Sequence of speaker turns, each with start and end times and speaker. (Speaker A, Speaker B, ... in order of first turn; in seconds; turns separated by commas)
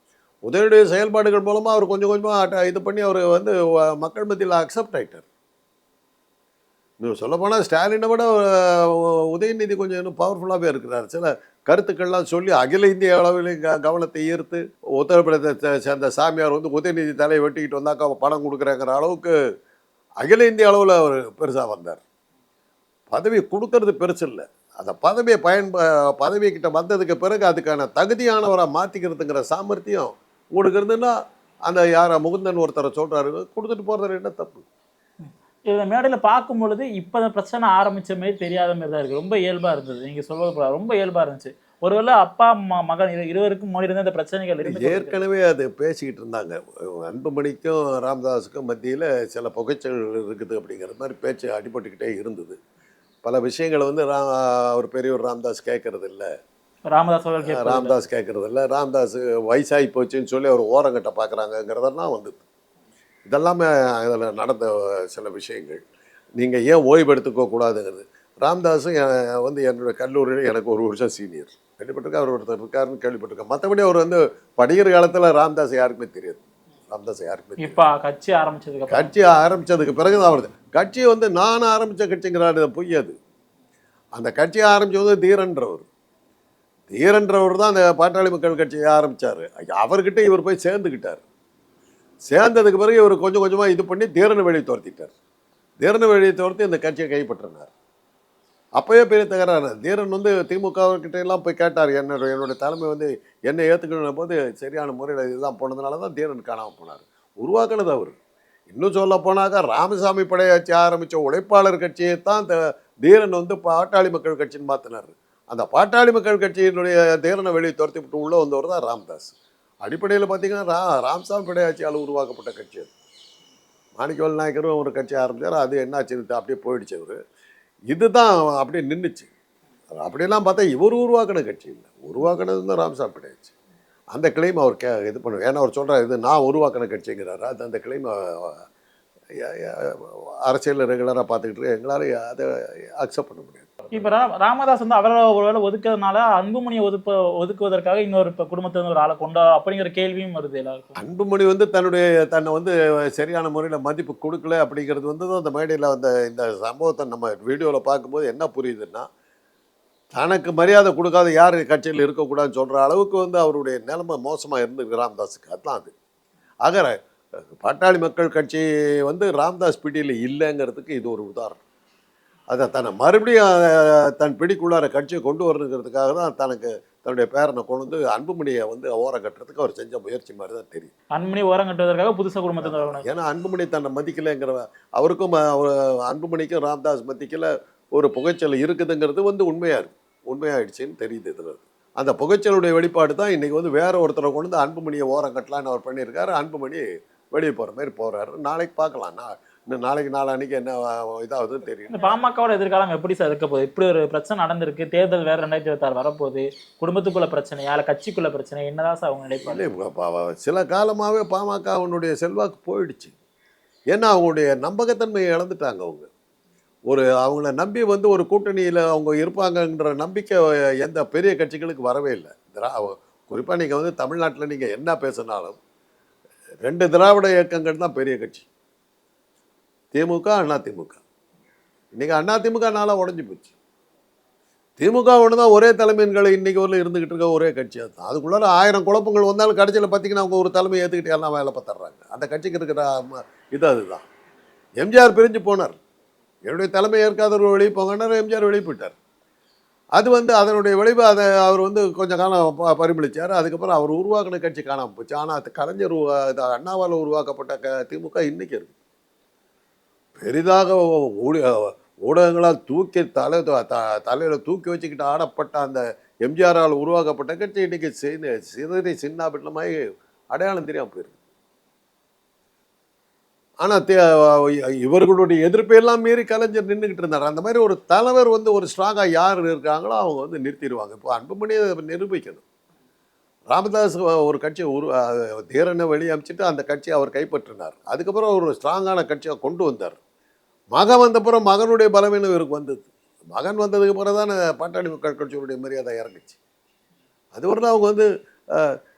Speaker A: 0.5-5.2, Speaker A: 7.0-19.3, Speaker A: 20.2-22.0, Speaker A: 23.1-31.1, Speaker A: 31.7-34.6, Speaker B: 35.2-45.2, Speaker A: 44.6-52.6, Speaker A: 53.2-56.3, Speaker B: 56.9-58.0, Speaker A: 57.4-62.4, Speaker A: 63.3-65.8, Speaker A: 66.4-77.8, Speaker B: 77.6-79.1, Speaker A: 78.9-83.1, Speaker A: 84.2-85.9, Speaker A: 86.9-91.2, Speaker A: 92.3-95.1, Speaker A: 95.8-97.7, Speaker A: 98.8-108.2, Speaker A: 108.7-122.9, Speaker A: 124.0-127.2, Speaker A: 127.9-129.3, Speaker A: 129.9-133.5, Speaker A: 134.1-138.6, Speaker A: 139.4-142.5, Speaker A: 143.0-144.1, Speaker B: 143.9-150.9, Speaker A: 151.0-159.1, Speaker A: 160.1-165.9, Speaker A: 166.6-167.0, Speaker A: 167.6-171.6, Speaker A: 172.5-180.9, Speaker B: 181.1-183.0, Speaker A: 182.6-202.0, Speaker B: 201.9-209.7, Speaker A: 209.4-213.1, Speaker A: 213.9-216.1, Speaker A: 216.9-225.6, Speaker A: 226.6-228.5, Speaker A: 229.9-231.0, Speaker A: 232.0-233.5, Speaker A: 234.8-244.0, Speaker A: 244.8-245.7, Speaker A: 246.5-248.9, Speaker A: 249.9-258.7, Speaker A: 260.2-269.8, Speaker A: 270.3-271.1, Speaker A: 273.6-282.4, Speaker A: 283.5-290.0, Speaker A: 290.7-296.4, Speaker A: 297.3-298.8